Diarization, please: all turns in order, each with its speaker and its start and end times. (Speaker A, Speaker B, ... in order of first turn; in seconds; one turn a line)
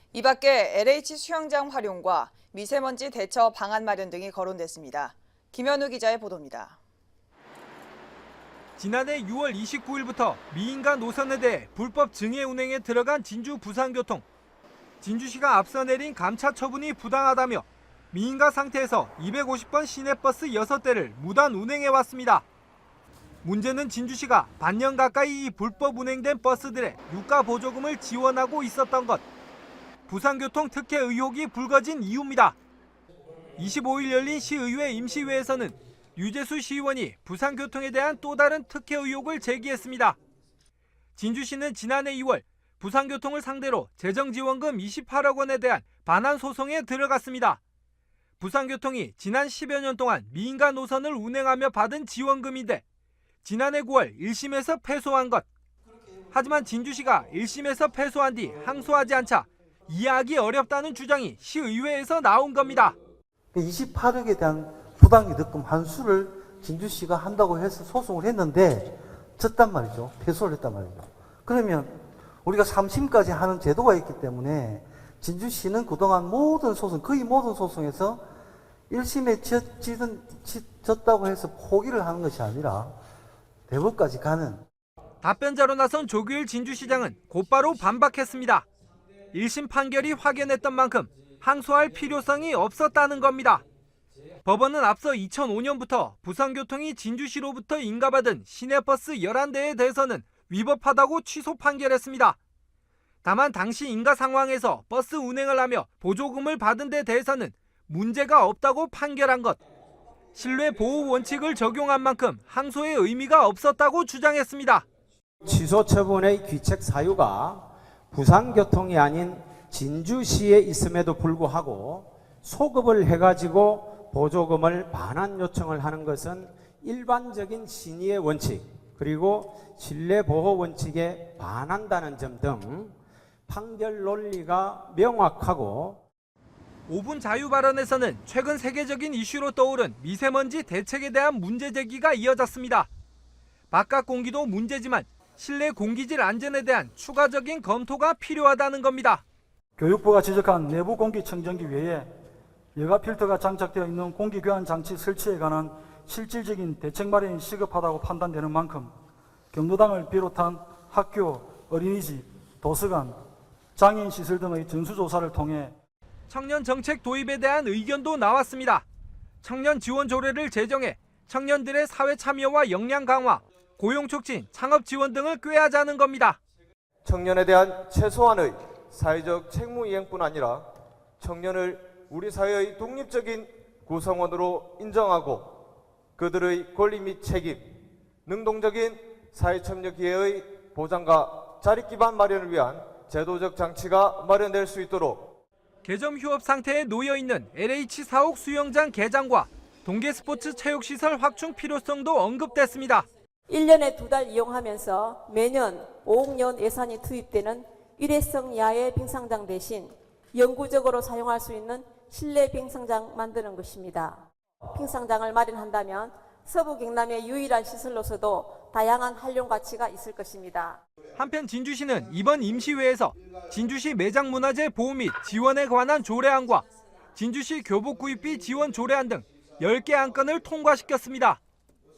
Speaker A: 0.1-6.8
Speaker B: 8.8-14.2
Speaker B: 15.0-22.4
Speaker B: 23.4-29.2
Speaker B: 30.1-32.6
Speaker B: 33.6-40.2
Speaker B: 41.1-47.6
Speaker B: 48.4-52.8
Speaker B: 53.4-55.5
Speaker B: 56.3-62.9
Speaker C: 63.5-78.2
Speaker C: 78.9-82.9
Speaker C: 83.7-84.6
Speaker B: 85.2-88.7
Speaker B: 89.3-93.6
Speaker B: 94.4-102.4
Speaker B: 103.2-109.6
Speaker B: 110.3-114.8
Speaker D: 115.4-132.9
Speaker D: 133.5-136.0
Speaker B: 136.9-142.9
Speaker B: 143.7-149.2
Speaker E: 149.8-152.1
Speaker E: 152.8-158.9
Speaker E: 159.5-163.2
Speaker E: 163.8-165.7
Speaker B: 166.3-168.8
Speaker B: 169.4-176.4
Speaker F: 177.0-180.7
Speaker F: 181.2-185.6
Speaker F: 186.2-187.6
Speaker F: 188.2-195.4
Speaker B: 195.8-203.1
Speaker G: 203.5-220.8
Speaker B: 221.2-231.4